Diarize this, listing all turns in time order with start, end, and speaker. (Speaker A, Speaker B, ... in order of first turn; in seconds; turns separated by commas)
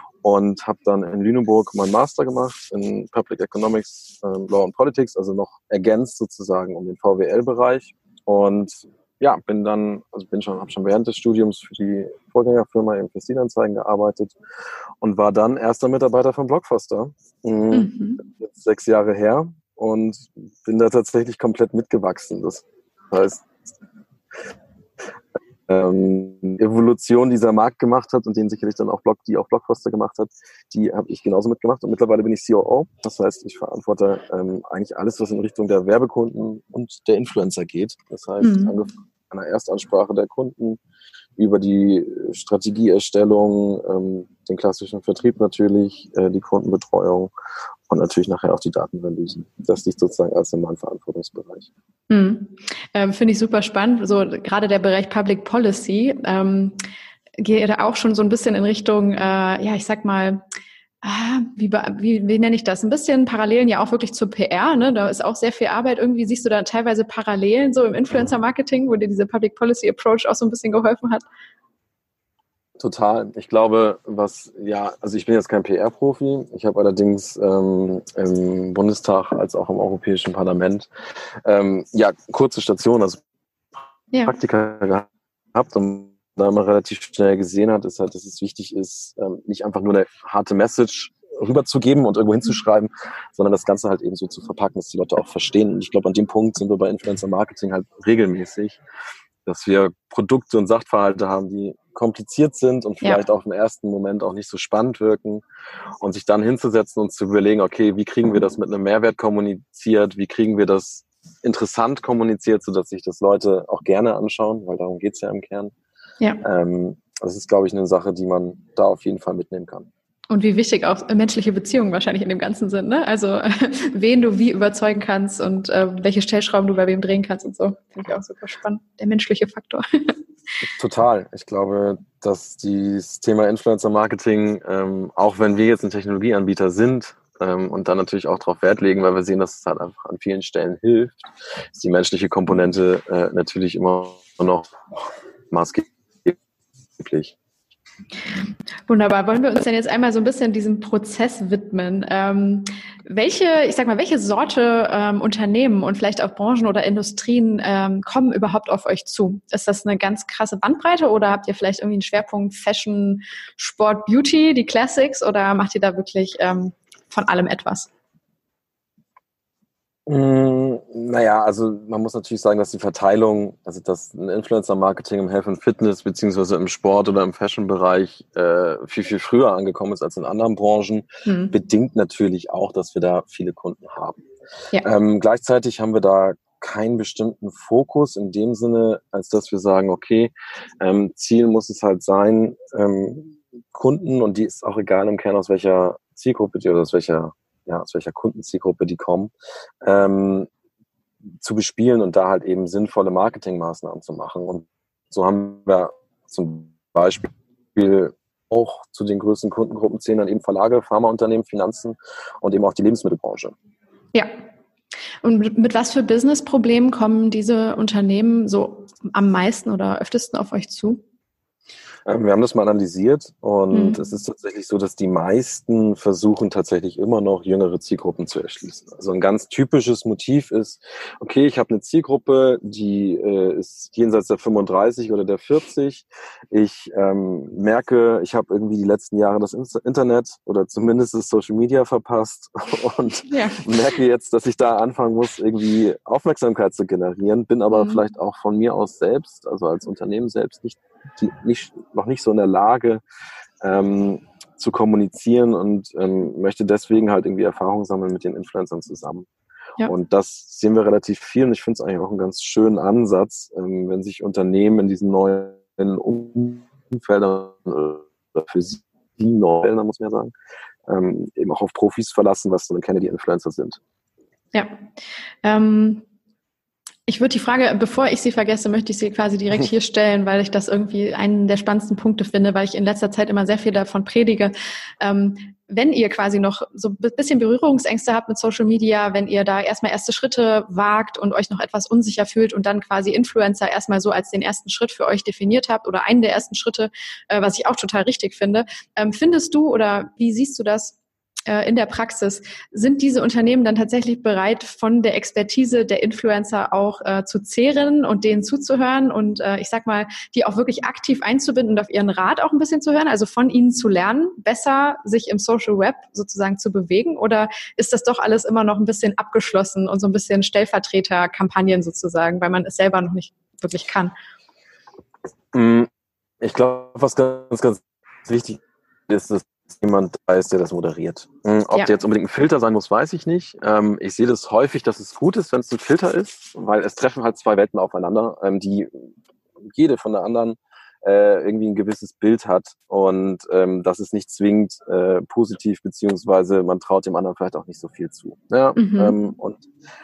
Speaker A: 0.2-14.4, Speaker A: 15.0-23.5, Speaker B: 17.7-18.2, Speaker A: 25.7-40.8, Speaker B: 38.4-38.7, Speaker A: 41.4-47.3, Speaker A: 47.9-51.7, Speaker B: 52.1-56.8, Speaker B: 57.4-60.4, Speaker B: 61.0-71.2, Speaker A: 72.8-80.9, Speaker A: 81.5-83.2, Speaker A: 84.3-98.8, Speaker A: 99.5-105.4, Speaker A: 106.0-115.7, Speaker A: 116.4-119.9, Speaker B: 120.3-130.1, Speaker A: 130.8-144.7, Speaker A: 145.5-146.4, Speaker A: 147.0-147.3, Speaker B: 148.9-167.9, Speaker A: 170.1-184.2, Speaker B: 181.3-181.5, Speaker A: 184.8-199.3, Speaker A: 199.8-200.5, Speaker A: 201.4-213.6, Speaker B: 215.2-221.0, Speaker A: 222.1-253.0, Speaker B: 223.7-224.0, Speaker B: 243.3-243.6, Speaker B: 247.7-248.0, Speaker A: 253.6-259.3, Speaker A: 259.8-270.3, Speaker A: 270.9-273.8, Speaker B: 275.4-276.0, Speaker B: 277.1-324.1, Speaker A: 325.5-325.9, Speaker A: 326.4-339.0, Speaker A: 339.6-349.7, Speaker B: 348.8-349.2